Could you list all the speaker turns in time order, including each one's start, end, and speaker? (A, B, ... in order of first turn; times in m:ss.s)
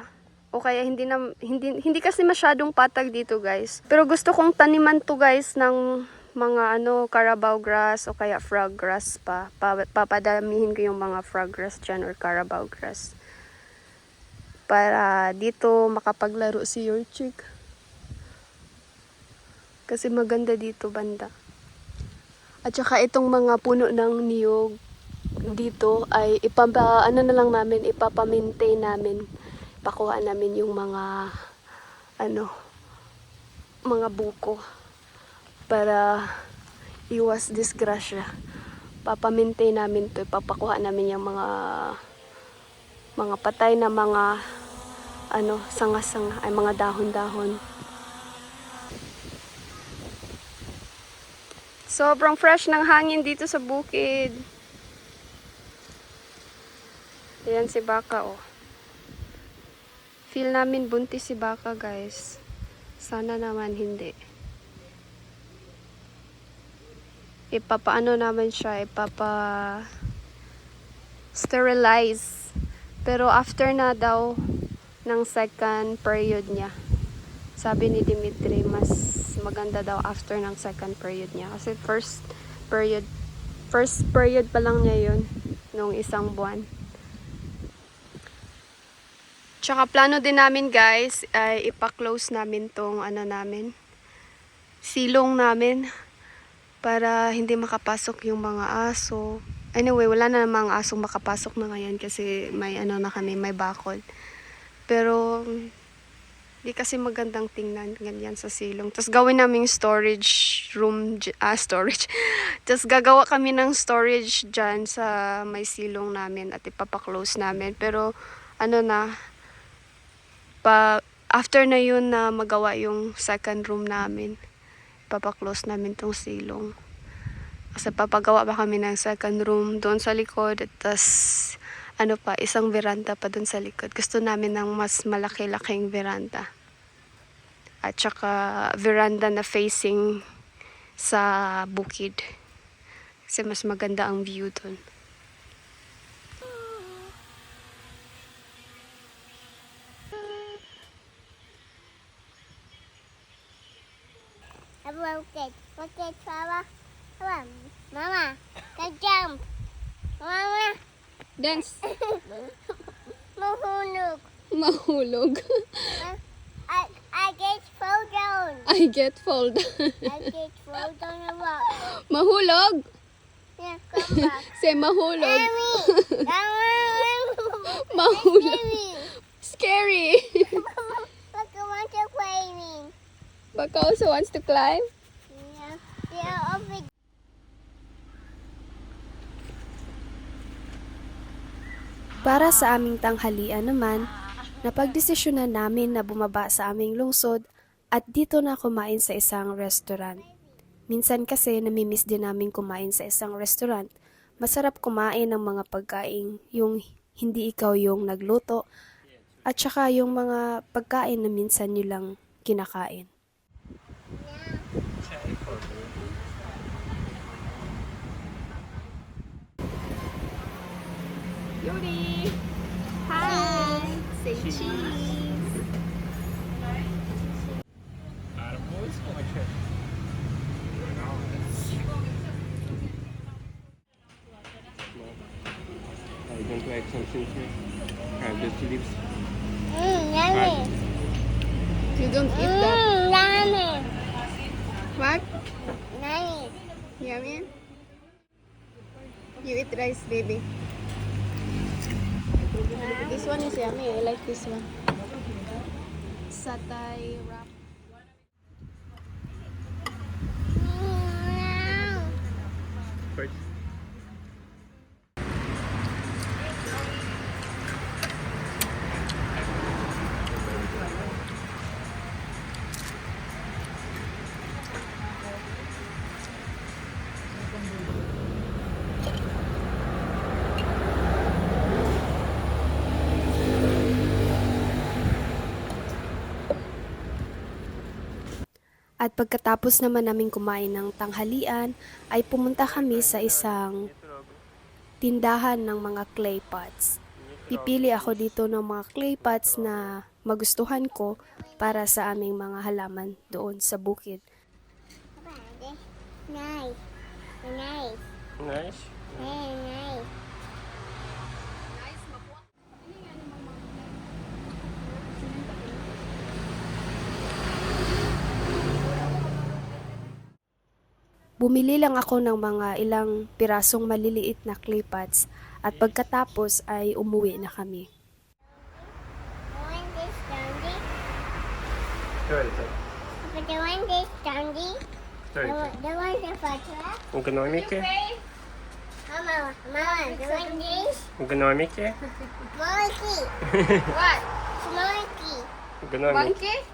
0:00.5-0:05.8 A
0:06.4-0:13.1 A
0:14.7-0:17.4 A
0:19.9-0:21.3 A
0:22.7-0:24.7 A
0:25.5-0:29.2 A
0:29.8-0:31.1 A
0:32.2-0:32.5 A
0:33.9-0:34.6 A
0:35.7-0:36.2 A
0:37.1-0:38.3 A
0:39.0-0:42.0 A
0:43.2-0:44.3 A
0:45.3-0:47.6 A
0:51.9-0:54.4 A
0:57.4-0:58.4 A
1:00.3-1:02.4 A
1:03.0-1:04.1 A
1:07.5-1:09.8 A
1:11.3-1:12.5 A
1:13.0-1:14.4 A
1:15.1-1:16.7 A
1:17.6-1:23.1 A
1:23.7-1:26.6 A
1:29.6-1:33.7 A
1:34.8-1:35.8 A
1:36.8-1:39.2 A
1:39.8-1:44.0 A
1:44.9-1:45.7 A
1:46.6-1:58.1 A
1:58.6-1:59.0 A
2:00.6-2:04.4 A
2:05.1-2:06.7 A
2:07.8-2:16.4 A
2:17.8-2:20.1 A
2:21.0-2:22.2 A
2:23.3-2:24.8 A
2:34.8-2:36.7 B
2:37.2-2:39.4 B
2:40.2-2:40.8 B
2:41.4-2:41.8 A
2:41.8-2:42.4 B
2:43.4-2:44.2 B
2:44.5-2:46.0 A
2:46.0-2:48.7 B
2:48.7-2:50.3 A
2:50.0-2:51.8 B
2:51.7-2:52.8 A
2:53.6-2:54.5 B
2:54.0-2:56.2 A
2:55.2-2:59.1 B
2:57.7-3:00.6 A
3:00.5-3:02.9 B
3:03.5-3:04.8 A
3:05.3-3:06.9 B
3:12.2-3:14.1 A
3:14.6-3:17.4 A
3:17.9-3:20.2 A
3:20.9-3:23.9 A
3:24.4-3:28.6 A
3:29.0-3:29.6 C
3:29.4-3:33.1 A
3:34.2-3:34.6 B
3:35.0-3:36.1 C
3:41.6-3:42.4 A
3:43.1-3:45.5 A
3:43.1-3:44.0 B
3:44.3-3:45.1 C
3:48.3-3:49.6 C
3:50.8-3:51.9 C
3:54.9-3:55.2 C
3:56.2-3:57.6 C
3:58.2-3:59.1 C
3:59.7-4:00.7 B
4:00.3-4:00.7 C
4:01.9-4:02.8 A
4:02.3-4:03.9 B
4:05.0-4:05.2 A
4:05.9-4:06.6 B
4:07.0-4:07.5 A
4:09.4-4:10.4 A
4:12.7-4:13.2 B
4:12.9-4:14.6 A
4:16.3-4:17.5 A
4:20.5-4:22.1 B
4:23.1-4:23.4 C
4:30.5-4:30.9 C
4:49.0-4:53.9 A
4:52.4-4:54.4 C
4:55.0-4:57.0 A
4:57.1-4:58.3 C
4:57.5-5:04.2 A
4:59.2-5:00.0 C
5:05.2-5:06.8 B
5:07.4-5:08.0 B
5:08.4-5:09.4 C
5:09.2-5:10.1 B
5:21.4-5:27.9 A
5:25.7-5:26.0 C
5:28.5-5:28.9 B
5:29.5-5:30.8 B
5:32.2-5:32.7 C
5:33.2-5:34.8 B
5:35.3-5:35.7 C
5:35.4-5:37.0 B
5:37.1-5:37.9 C
5:37.4-5:38.2 A
5:39.1-5:40.9 B
5:40.1-5:40.9 A
5:41.2-5:42.0 C
5:42.5-5:43.3 B
5:43.4-5:43.9 C
5:43.9-5:44.2 A
5:44.6-5:45.5 B
5:45.8-5:46.4 C
5:46.1-5:46.6 A